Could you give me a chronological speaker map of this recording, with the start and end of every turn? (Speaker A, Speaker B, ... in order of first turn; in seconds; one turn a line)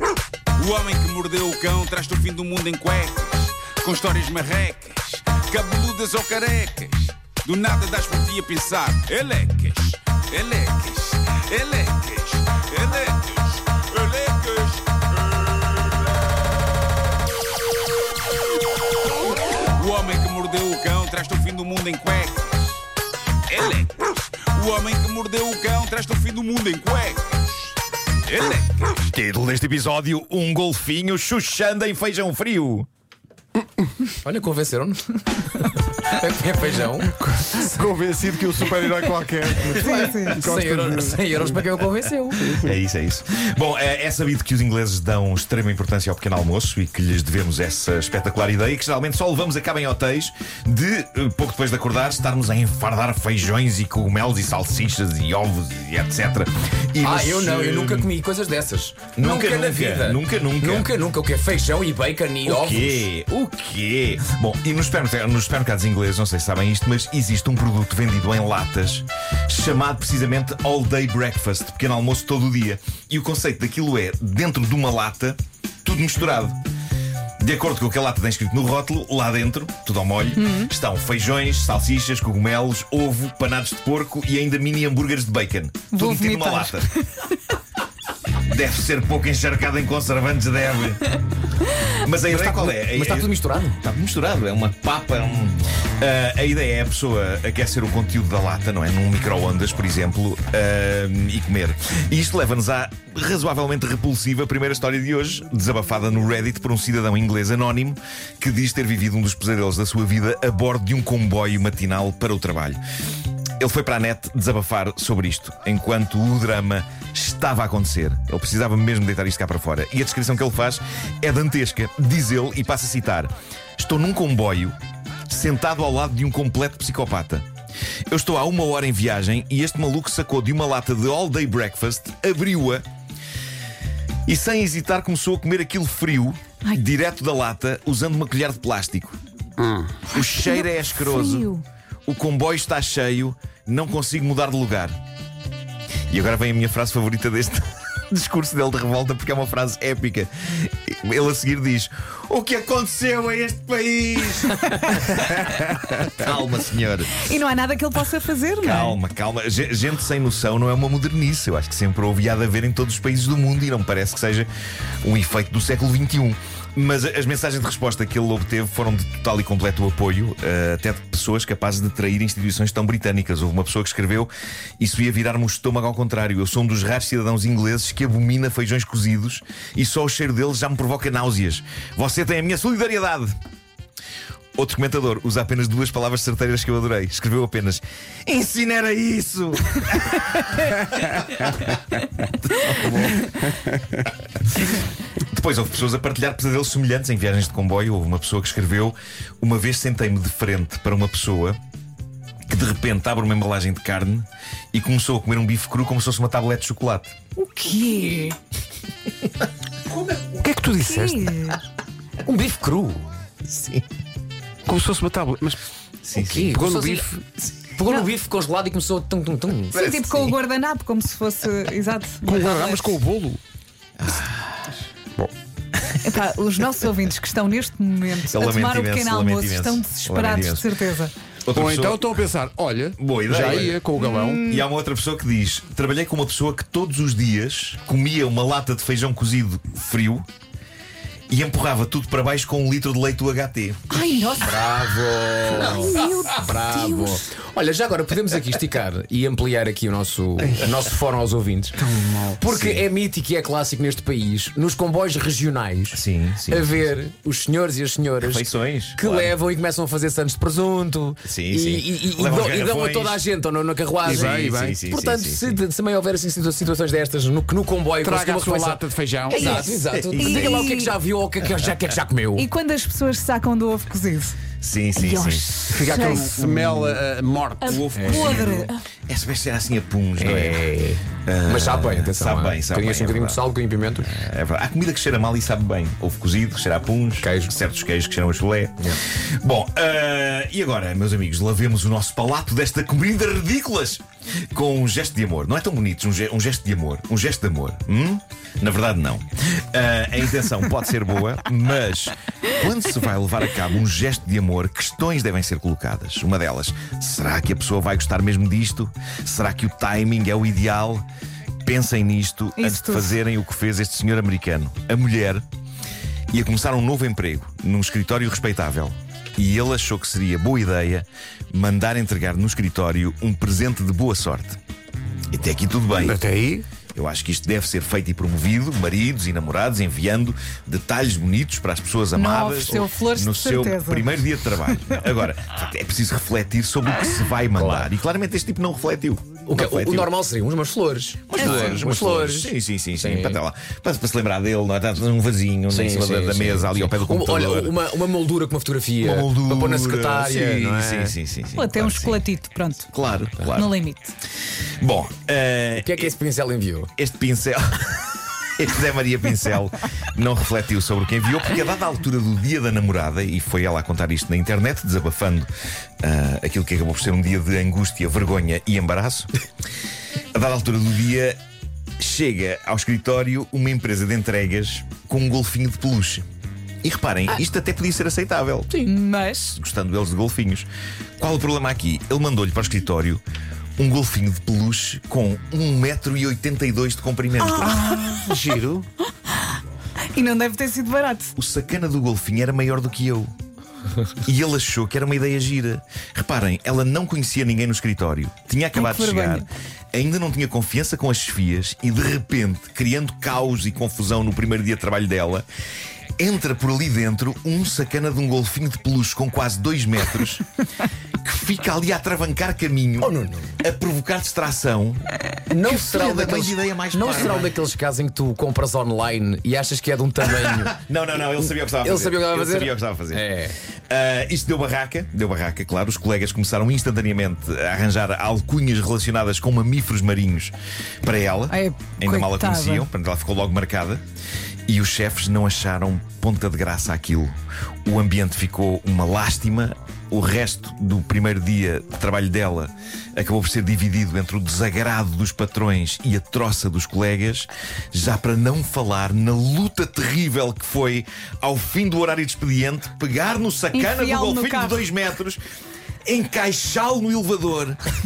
Speaker A: 0.6-16.1
Speaker A: 19.8-22.8
Speaker A: 23.5-27.7
Speaker A: 28.2-29.0
Speaker B: 29.0-32.9
Speaker C: 34.2-37.1
Speaker D: 37.1-41.3
Speaker C: 39.6-42.6
Speaker E: 39.8-40.4
Speaker B: 42.5-58.1
Speaker C: 57.0-63.0
Speaker B: 59.1-60.9
Speaker B: 62.4-76.6
Speaker B: 77.4-86.9
Speaker E: 80.4-80.7
Speaker E: 85.9-87.2
Speaker B: 88.5-91.1
Speaker B: 91.9-112.8
Speaker C: 92.3-93.8
Speaker B: 113.6-124.7
Speaker B: 125.3-127.5
Speaker B: 128.1-132.8
Speaker B: 134.2-139.2
Speaker D: 139.6-140.0
Speaker B: 140.1-141.5
Speaker E: 140.2-141.6
Speaker B: 142.1-144.9
Speaker B: 146.1-157.3
Speaker E: 157.2-159.0
Speaker B: 158.6-164.5
Speaker B: 165.0-183.3
Speaker B: 184.6-191.8
Speaker B: 192.4-193.2
Speaker B: 194.5-201.6
Speaker B: 202.5-207.1
Speaker E: 207.5-208.4
Speaker D: 210.2-211.3
Speaker E: 210.8-211.6
Speaker C: 212.2-213.1
Speaker B: 213.5-213.8
Speaker D: 214.7-215.6
Speaker B: 216.0-216.5
Speaker C: 216.2-217.1
Speaker D: 216.4-217.2
Speaker C: 217.6-220.3
Speaker B: 219.7-220.4
Speaker E: 219.7-222.8
Speaker D: 222.2-223.4
Speaker B: 224.0-224.7
Speaker E: 226.0-231.1
Speaker B: 228.2-230.7
Speaker B: 231.4-232.2
Speaker D: 231.5-234.4
Speaker B: 233.0-240.2
Speaker B: 241.3-243.9
Speaker E: 243.9-244.6
Speaker C: 244.4-251.8
Speaker E: 245.5-247.2
Speaker D: 250.4-250.7
Speaker D: 251.8-252.4
Speaker C: 252.4-272.5
Speaker B: 252.5-252.8
Speaker B: 255.9-256.7
Speaker B: 258.2-259.3
Speaker B: 261.2-263.2
Speaker D: 264.0-264.8
Speaker B: 264.1-265.6
Speaker D: 268.0-269.7
Speaker E: 269.3-269.6
Speaker B: 269.9-270.6
Speaker E: 270.2-270.9
Speaker E: 272.3-274.4
Speaker B: 274.6-277.0
Speaker E: 274.9-276.3
Speaker D: 275.7-277.8
Speaker E: 277.6-278.8
Speaker B: 277.7-280.7
Speaker C: 277.9-278.5
Speaker C: 280.2-284.1
Speaker B: 281.2-283.4
Speaker B: 284.1-294.0
Speaker C: 287.2-287.5
Speaker B: 294.5-311.0
Speaker B: 311.6-315.4
Speaker E: 312.6-313.1
Speaker B: 316.3-324.6
Speaker B: 325.3-326.2
Speaker D: 326.0-326.6
Speaker B: 326.9-340.1
Speaker E: 332.1-335.0
Speaker C: 337.5-337.9
Speaker C: 339.5-343.4
Speaker B: 341.3-347.8
Speaker E: 341.4-341.8
Speaker C: 345.7-351.1
Speaker B: 349.0-352.2
Speaker E: 351.6-352.9
Speaker B: 352.9-353.7
Speaker E: 353.5-354.1
Speaker B: 354.8-356.1
Speaker C: 355.8-356.9
Speaker B: 357.0-357.9
Speaker B: 358.6-365.5
Speaker B: 366.0-369.3
Speaker B: 370.3-371.4
Speaker B: 372.0-376.2
Speaker B: 376.8-378.8
Speaker E: 378.8-379.6
Speaker B: 379.5-380.7
Speaker B: 381.2-383.2
Speaker B: 383.8-387.8
Speaker D: 387.6-388.9
Speaker E: 387.7-388.3
Speaker E: 390.1-391.3
Speaker B: 391.4-393.3
Speaker B: 394.2-405.4
Speaker E: 398.7-399.4
Speaker B: 406.2-410.4
Speaker B: 411.2-415.0
Speaker C: 413.0-413.6
Speaker C: 415.5-423.5
Speaker B: 415.6-417.6
Speaker B: 420.3-423.3
Speaker B: 423.9-434.0
Speaker E: 431.5-432.9
Speaker B: 434.7-437.3
Speaker B: 437.9-455.4
Speaker E: 453.7-454.9
Speaker B: 456.1-457.8